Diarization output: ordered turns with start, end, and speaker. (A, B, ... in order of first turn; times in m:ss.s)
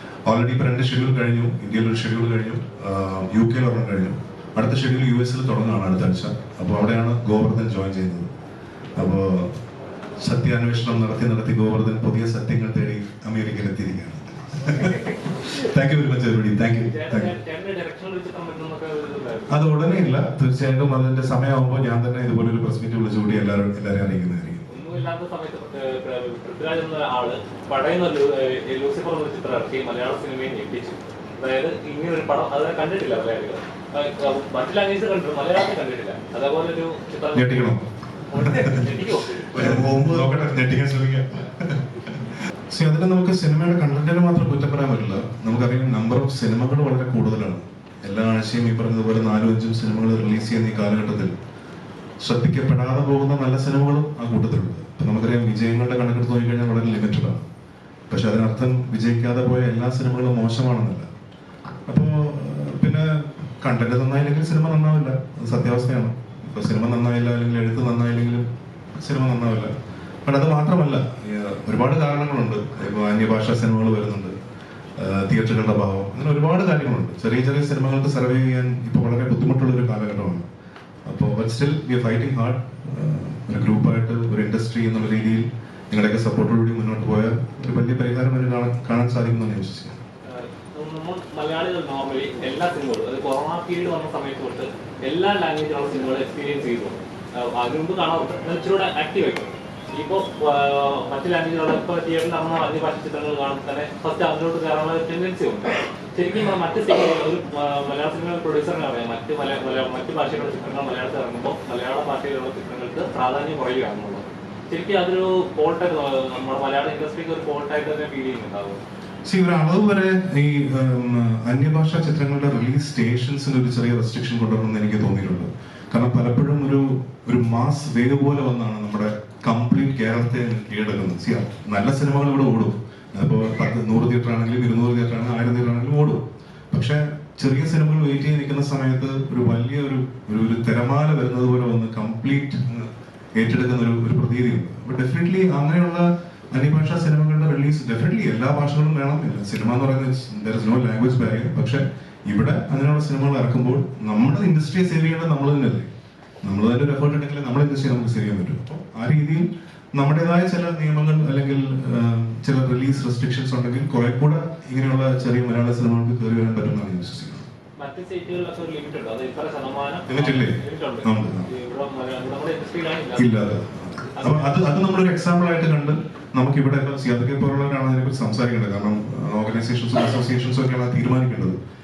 0:00.3-0:08.3 A
0:09.0-0:09.6 A
0:10.2-0:17.4 A
0:16.8-0:19.6 B
0:19.5-0:24.6 A
0:24.7-0:39.8 B
0:37.3-0:37.8 A
0:38.3-0:38.9 A
0:39.5-0:51.3 A
0:52.2-0:57.5 A
0:58.1-1:01.1 A
1:01.9-1:09.7 A
1:10.2-1:14.4 A
1:15.0-1:20.4 A
1:21.0-1:30.0 A
1:30.2-1:58.8 B
1:59.2-2:35.9 A
2:36.4-2:47.4 A
2:47.8-2:53.5 B
2:50.1-2:51.5 A
2:53.2-3:01.6 A
2:54.1-2:54.8 B